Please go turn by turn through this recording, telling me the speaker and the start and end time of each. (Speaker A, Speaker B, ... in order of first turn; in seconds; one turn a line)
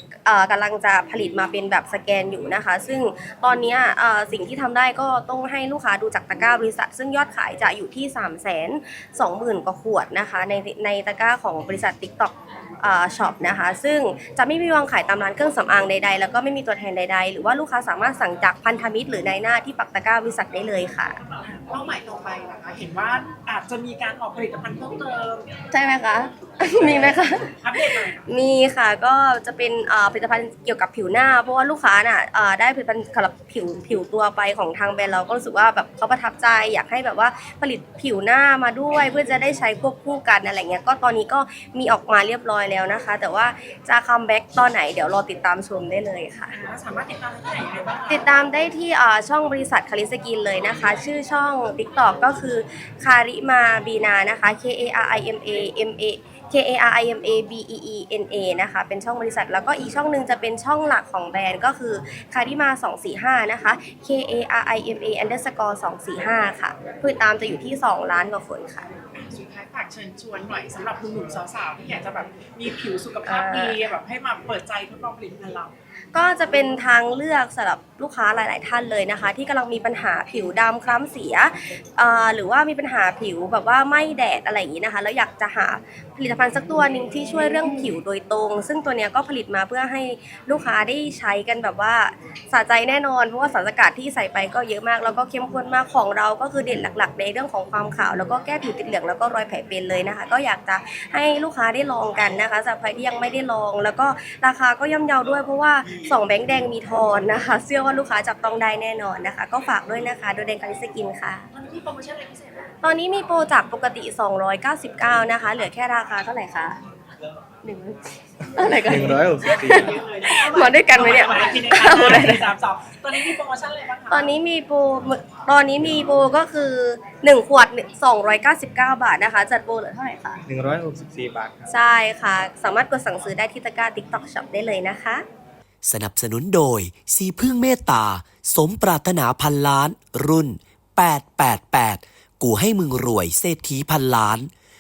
Speaker A: 0.2-21.2
Speaker B: 21.3-25.5
Speaker A: 25.7-46.5
Speaker B: 26.7-28.2
Speaker B: 46.5-48.3
Speaker A: 48.1-68.9
Speaker B: 69.1-75.7
Speaker A: 73.2-73.9
Speaker A: 76.1-111.5
Speaker B: 111.5-112.7
Speaker A: 112.8-116.8
Speaker A: 117.6-122.4
Speaker C: 118.8-119.9
Speaker B: 118.9-124.3
Speaker A: 124.1-130.4
Speaker C: 130.4-131.7
Speaker A: 131.7-135.2
Speaker D: 135.8-144.5